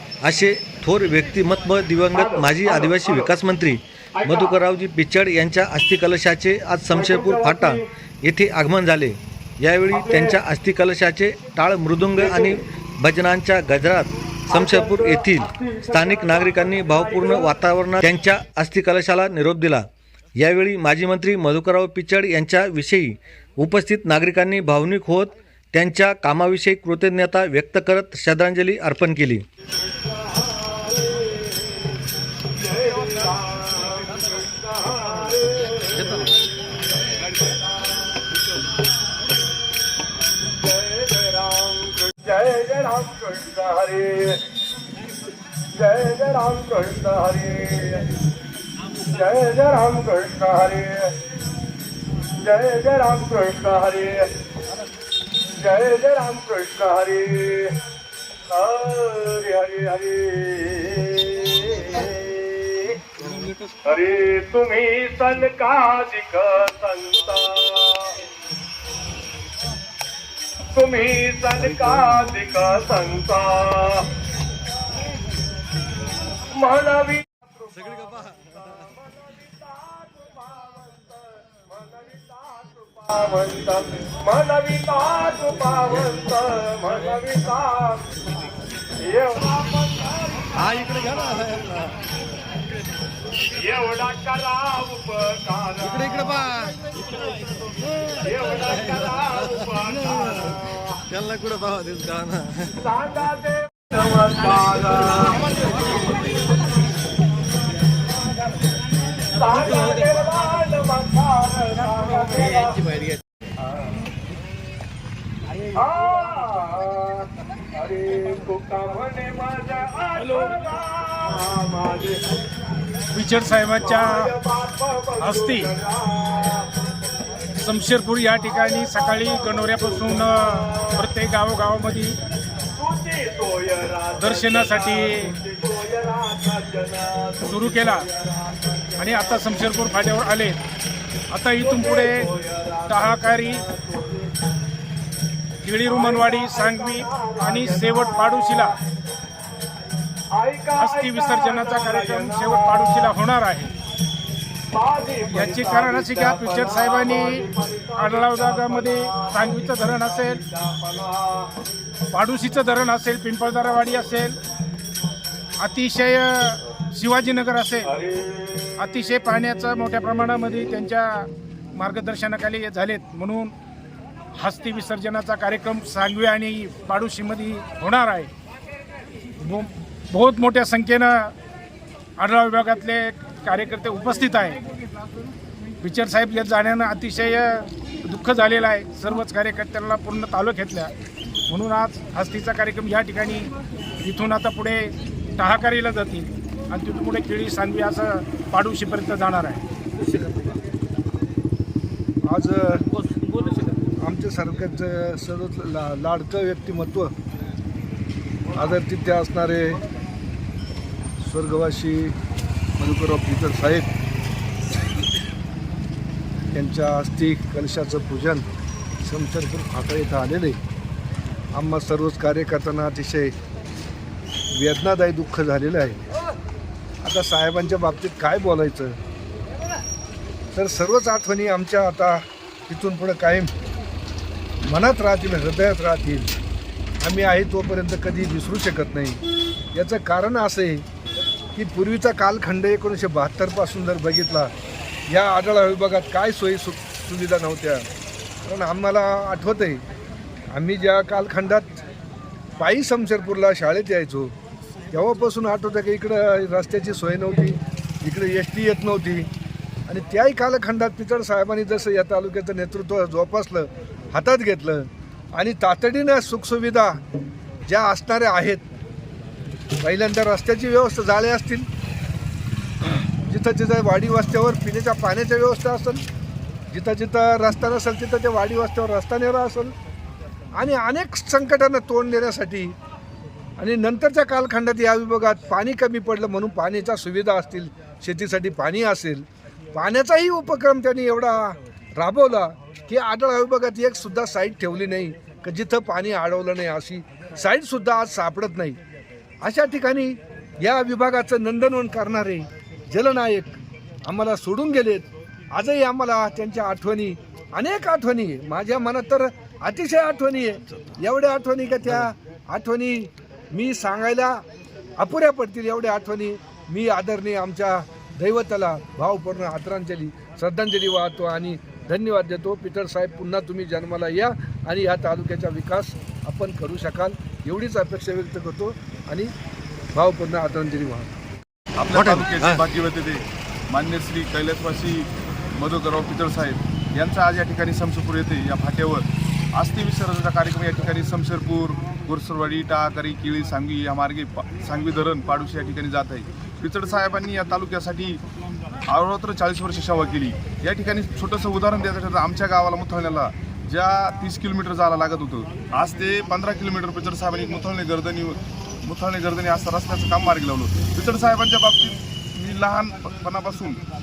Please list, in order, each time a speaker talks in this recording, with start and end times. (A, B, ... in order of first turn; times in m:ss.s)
0:00.2-0:19.8 A
0:02.1-0:03.3 B
0:04.2-0:04.5 B
0:06.9-0:07.8 B
0:09.9-0:10.3 B
0:12.2-0:12.5 B
0:14.5-0:17.5 B
0:20.4-0:29.4 A
0:30.0-0:32.0 B
0:32.6-0:36.4 B
0:35.9-0:36.3 A
0:37.1-0:38.2 B
0:40.5-0:44.4 B
0:45.7-0:48.2 B
0:49.1-0:51.1 B
0:52.4-0:54.3 B
0:55.6-0:57.8 B
0:58.5-1:03.0 B
1:03.8-1:08.1 B
1:10.7-1:14.1 B
1:11.6-1:12.3 A
1:16.5-1:17.8 B
1:17.7-1:18.7 A
1:19.2-1:28.0 B
1:29.0-1:31.4 B
1:30.6-1:32.0 A
1:33.5-1:36.4 B
1:35.8-1:37.2 A
1:37.9-1:40.6 A
1:38.2-1:40.9 B
1:41.1-1:42.8 A
1:42.8-1:45.8 B
1:49.3-1:53.0 B
1:55.7-2:02.2 B
2:03.1-2:04.3 C
2:03.8-2:06.7 B
2:05.2-2:05.7 C
2:07.5-2:12.2 C
2:08.4-2:11.2 B
2:12.7-2:20.0 B
2:14.2-2:15.3 C
2:17.5-2:18.0 C
2:19.0-2:20.6 C
2:21.3-2:22.3 C
2:21.6-2:24.3 B
2:22.9-2:23.6 C
2:25.6-2:28.8 C
2:25.9-2:28.7 B
2:30.3-2:33.2 B
2:30.7-2:33.7 C
2:34.7-2:41.5 B
2:35.3-2:40.4 C
2:42.1-2:44.4 C
2:45.6-2:47.9 C
2:48.0-2:48.7 B
2:48.8-2:53.5 C
2:54.3-2:58.3 C
2:59.4-3:01.3 C
3:02.2-3:04.6 C
3:05.8-3:10.9 C
3:11.5-3:19.6 C
3:22.3-3:22.9 D
3:24.0-3:27.1 D
3:28.5-3:29.8 D
3:31.2-3:32.1 D
3:32.8-3:33.9 D
3:36.5-3:38.4 D
3:39.0-3:40.6 D
3:41.5-3:43.3 D
3:44.5-3:46.1 D
3:47.0-3:49.0 D
3:50.5-3:53.5 D
3:54.6-3:56.3 D
3:57.0-3:59.2 D
3:59.7-4:00.8 D
4:01.5-4:04.5 D
4:05.1-4:07.9 D
4:08.4-4:09.8 D
4:10.5-4:11.8 D
4:12.6-4:14.3 D
4:14.9-4:19.3 D
4:19.9-4:27.0 D
4:27.7-4:28.6 D
4:29.8-4:31.6 D
4:33.2-4:36.0 D
4:36.7-4:39.7 D
4:40.6-4:42.7 D
4:43.6-4:49.2 D
4:49.7-4:58.8 D
4:59.4-5:14.4 D
5:15.0-5:29.3 D
5:29.9-5:31.1 D
5:31.8-5:48.2 E
5:31.9-5:32.6 A
5:48.9-6:03.8 E